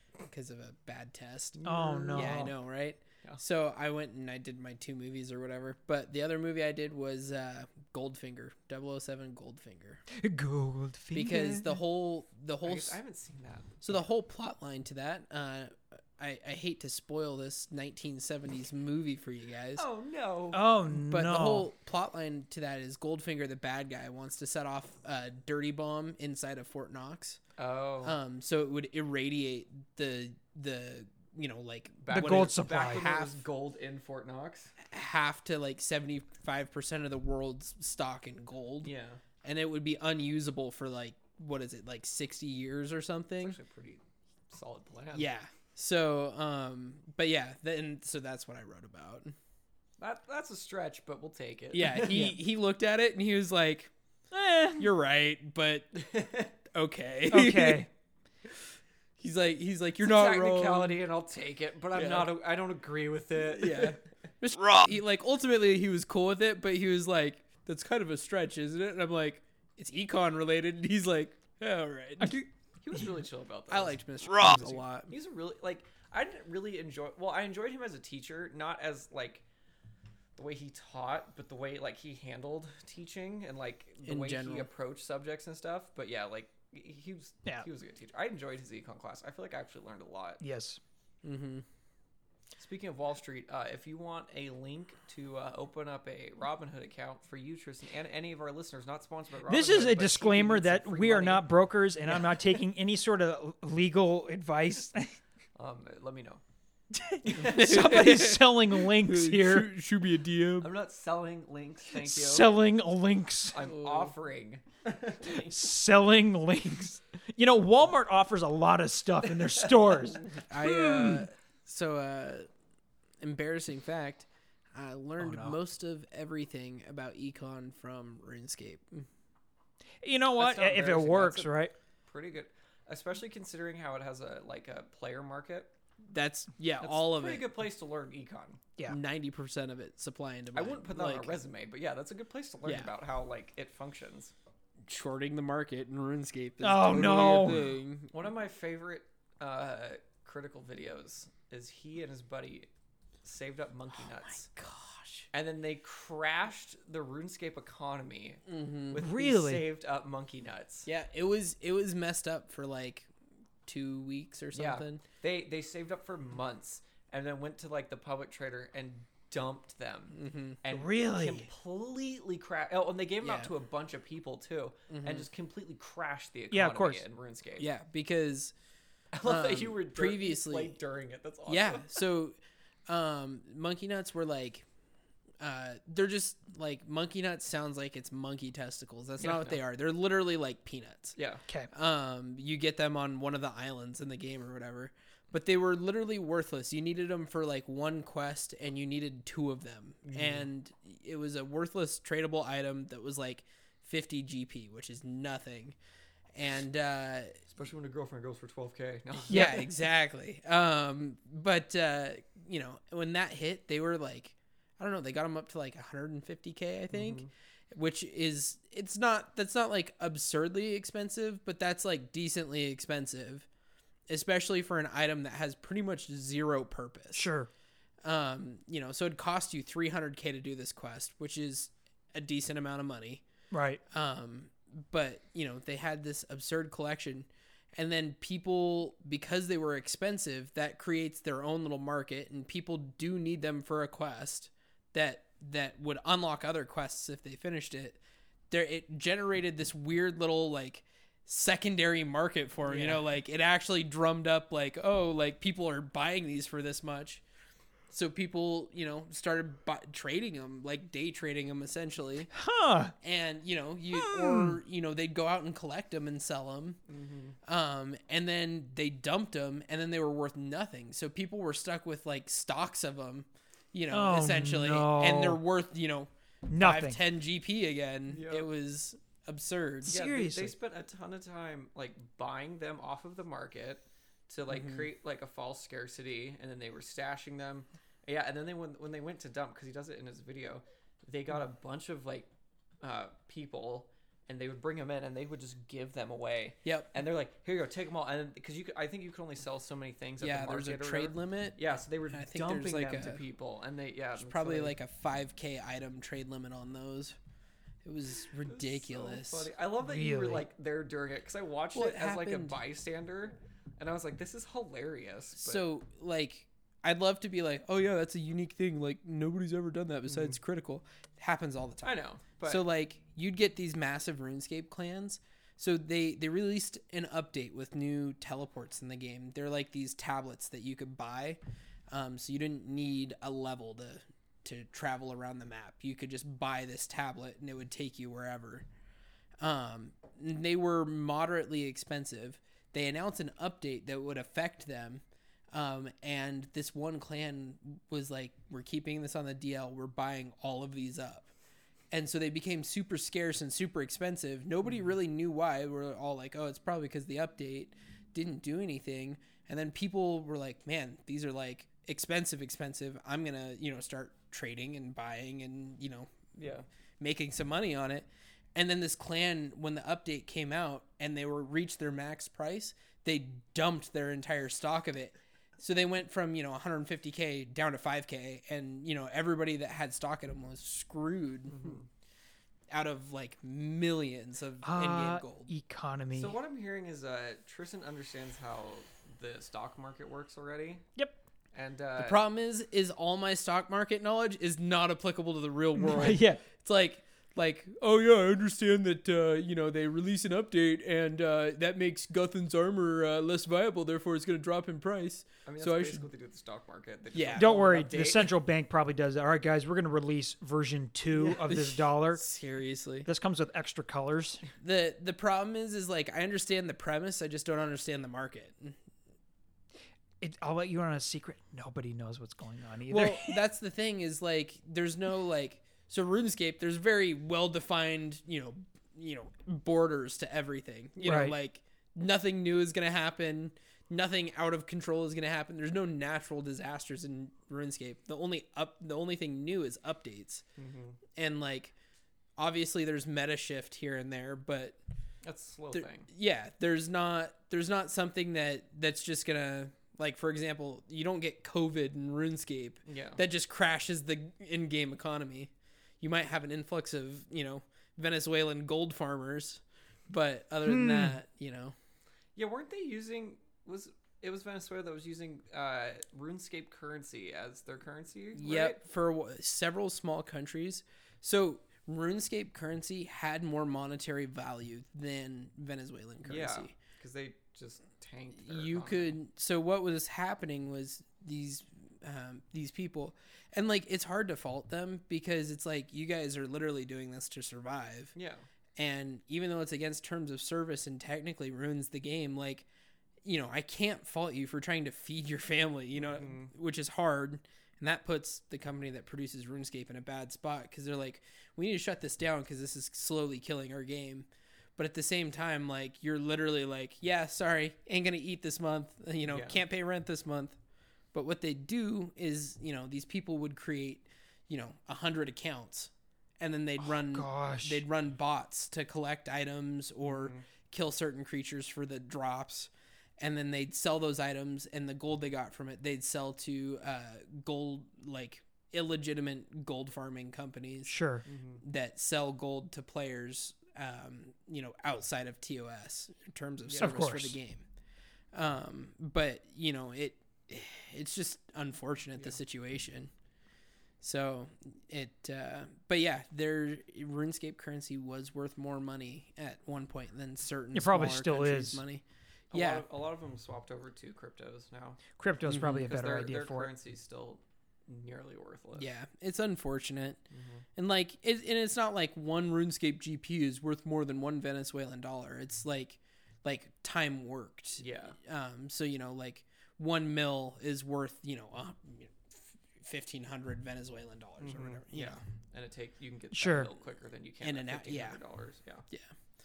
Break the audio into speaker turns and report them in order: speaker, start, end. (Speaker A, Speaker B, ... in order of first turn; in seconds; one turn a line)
Speaker A: 0.2-10.0
Speaker B: 1.6-2.5
Speaker C: 1.6-2.5
Speaker C: 10.1-11.8
Speaker A: 11.1-13.0
Speaker B: 12.6-13.8
Speaker A: 13.8-19.9
Speaker B: 19.8-20.6
Speaker C: 20.5-21.7
Speaker A: 20.9-27.4
Speaker B: 27.6-28.2
Speaker A: 28.0-33.4
Speaker B: 32.0-34.7
Speaker C: 32.1-33.1
Speaker A: 34.8-38.9
Speaker B: 38.8-39.2
Speaker A: 39.4-43.6
Speaker B: 43.4-45.3
Speaker A: 45.1-49.4
Speaker B: 50.0-52.3
Speaker A: 51.7-53.9
Speaker C: 52.1-52.4
Speaker C: 54.3-54.9
Speaker A: 54.8-57.9
Speaker B: 56.0-56.5
Speaker C: 57.3-57.9
Speaker A: 59.2-61.0
Speaker B: 60.0-64.0
Speaker A: 61.9-62.3
Speaker A: 63.5-72.4
Speaker B: 72.3-79.4
Speaker A: 73.7-75.1
Speaker B: 80.4-90.4
Speaker A: 84.0-84.7
Speaker C: 90.4-90.8
Speaker A: 91.2-91.7
Speaker B: 92.6-101.5
Speaker C: 99.5-105.2
Speaker B: 105.6-106.4
Speaker C: 106.9-109.7
Speaker A: 107.3-110.7
Speaker B: 107.4-107.9
Speaker B: 110.6-112.5
Speaker C: 111.9-113.6
Speaker B: 113.5-115.7
Speaker A: 113.6-114.1
Speaker C: 115.2-121.3
Speaker B: 119.4-119.9
Speaker A: 120.3-122.5
Speaker A: 123.2-129.1
Speaker C: 125.2-125.6
Speaker C: 130.0-131.7
Speaker B: 130.4-135.7
Speaker A: 136.1-137.5
Speaker B: 136.8-138.6
Speaker A: 138.9-141.4
Speaker B: 140.5-144.3
Speaker A: 142.7-142.9
Speaker A: 144.9-148.2
Speaker C: 146.6-147.6
Speaker B: 148.1-152.7
Speaker B: 153.2-154.5
Speaker A: 153.9-155.3
Speaker B: 155.3-160.9
Speaker A: 158.5-159.0
Speaker C: 159.0-159.6
Speaker A: 160.9-163.1
Speaker A: 163.7-165.0
Speaker B: 164.5-177.7
Speaker A: 170.1-170.6
Speaker C: 170.7-171.5
Speaker A: 173.2-173.5
Speaker A: 174.9-175.3
Speaker C: 176.5-177.0
Speaker A: 177.6-178.5
Speaker B: 179.1-182.0
Speaker A: 179.2-180.8
Speaker A: 181.5-182.4
Speaker A: 182.9-184.7
Speaker A: 185.4-191.2
Speaker B: 189.2-189.6
Speaker B: 191.2-191.4
Speaker A: 191.7-205.8
Speaker B: 200.1-200.4
Speaker A: 206.3-207.4
Speaker B: 207.5-209.7
Speaker A: 209.2-223.5
Speaker C: 209.3-209.6
Speaker B: 216.9-217.3
Speaker A: 224.1-227.3
Speaker C: 227.1-227.5
Speaker A: 228.0-233.2
Speaker C: 233.5-233.8
Speaker A: 233.9-257.2
Speaker A: 257.9-262.3
Speaker C: 262.3-262.9
Speaker A: 263.0-266.8
Speaker C: 263.9-264.6
Speaker B: 266.9-267.4
Speaker A: 267.4-280.0
Speaker C: 273.9-275.4
Speaker C: 276.5-277.0
Speaker B: 278.1-278.5
Speaker C: 279.9-280.5
Speaker B: 279.9-292.3
Speaker A: 284.5-284.9
Speaker B: 292.8-304.8
Speaker A: 296.6-296.9
Speaker A: 300.2-301.6
Speaker A: 302.1-303.2
Speaker A: 304.2-307.2
Speaker A: 307.8-309.5
Speaker B: 308.5-315.6
Speaker C: 309.8-310.5
Speaker A: 311.7-312.6
Speaker A: 315.4-331.4
Speaker B: 321.8-322.6
Speaker A: 331.9-338.7
Speaker A: 339.4-351.3
Speaker A: 351.9-366.1
Speaker B: 366.4-366.7
Speaker A: 367.0-381.8
Speaker B: 381.5-381.9
Speaker A: 382.7-385.5
Speaker C: 384.6-386.4
Speaker B: 386.1-390.9
Speaker B: 391.5-392.2
Speaker A: 392.0-406.1
Speaker C: 395.8-396.4
Speaker B: 405.5-408.3
Speaker A: 407.1-407.7
Speaker C: 407.4-412.2
Speaker A: 411.1-413.1
Speaker C: 413.1-414.4
Speaker A: 414.6-418.8
Speaker C: 420.2-423.4
Speaker A: 422.9-440.4
Speaker C: 431.0-431.4
Speaker B: 440.6-441.0
Speaker A: 441.1-441.7
Speaker A: 442.4-444.8
Speaker B: 445.2-446.1
Speaker A: 445.7-461.8
Speaker B: 452.9-453.2
Speaker C: 460.6-461.2
Speaker B: 462.4-468.8
Speaker A: 468.4-476.7
Speaker B: 476.2-479.2
Speaker A: 478.4-488.1
Speaker B: 488.1-488.5
Speaker A: 488.8-492.7
Speaker A: 493.2-510.6
Speaker B: 496.0-496.5
Speaker B: 509.3-509.6
Speaker A: 511.1-530.9
Speaker C: 516.8-517.8
Speaker B: 520.1-520.5
Speaker C: 530.9-531.2
Speaker B: 531.3-531.6
Speaker A: 531.6-537.6
Speaker B: 536.7-537.0
Speaker C: 536.8-537.4
Speaker A: 538.3-543.1
Speaker A: 544.0-552.9
Speaker C: 550.7-551.8
Speaker B: 552.5-555.0
Speaker C: 555.2-556.7
Speaker A: 555.5-555.9
Speaker B: 555.6-558.9
Speaker A: 558.8-560.2
Speaker B: 560.3-560.6
Speaker A: 560.8-575.2
Speaker B: 567.8-568.2
Speaker B: 574.4-578.9
Speaker C: 576.3-576.7
Speaker A: 577.4-578.2